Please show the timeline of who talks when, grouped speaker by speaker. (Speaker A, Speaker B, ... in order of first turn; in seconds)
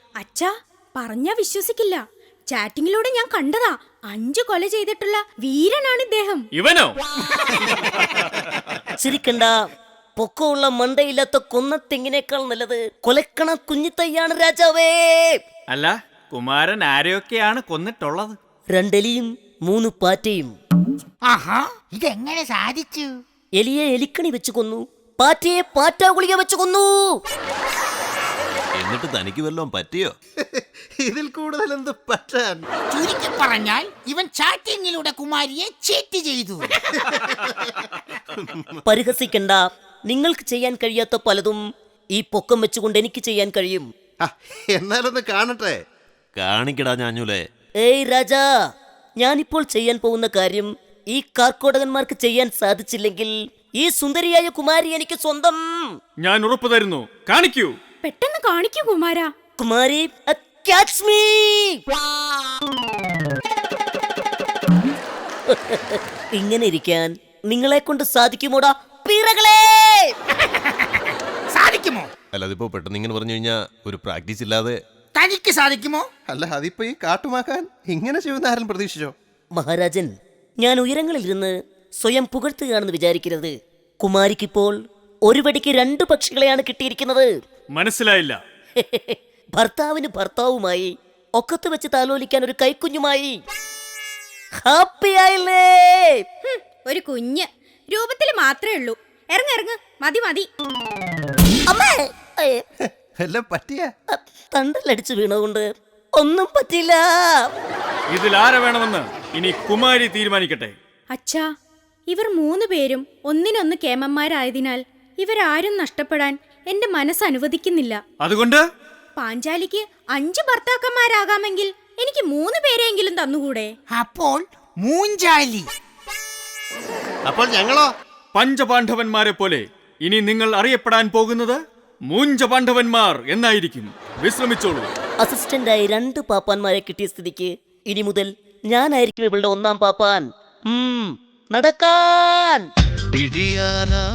Speaker A: 0.2-6.5, 58.0-59.3, 96.4-100.5, 111.1-111.5, 112.1-118.0, 119.2-123.7
Speaker B: 6.5-7.0, 15.7-18.4, 56.2-57.7, 87.7-88.4, 108.1-110.7, 118.2-118.6, 128.3-134.9
Speaker C: 9.0-9.5, 10.2-15.4, 18.7-20.5, 23.6-27.2, 38.8-41.6, 42.1-43.9, 47.8-48.4, 49.2-55.9, 59.6-61.8, 65.5-70.1, 79.5-84.8, 85.3-87.3, 88.8-93.4, 94.6-96.2, 101.7-102.6, 104.1-105.6, 106.2-107.5, 135.2-142.7
Speaker D: 21.3-23.1, 32.9-36.7, 70.3-72.1, 75.2-76.1, 123.9-125.7
Speaker E: 28.8-30.1, 46.4-47.4, 72.3-74.8
Speaker F: 30.5-32.6, 37.0-37.8, 44.2-45.8, 76.3-79.1, 103.2-103.9, 127.3-127.9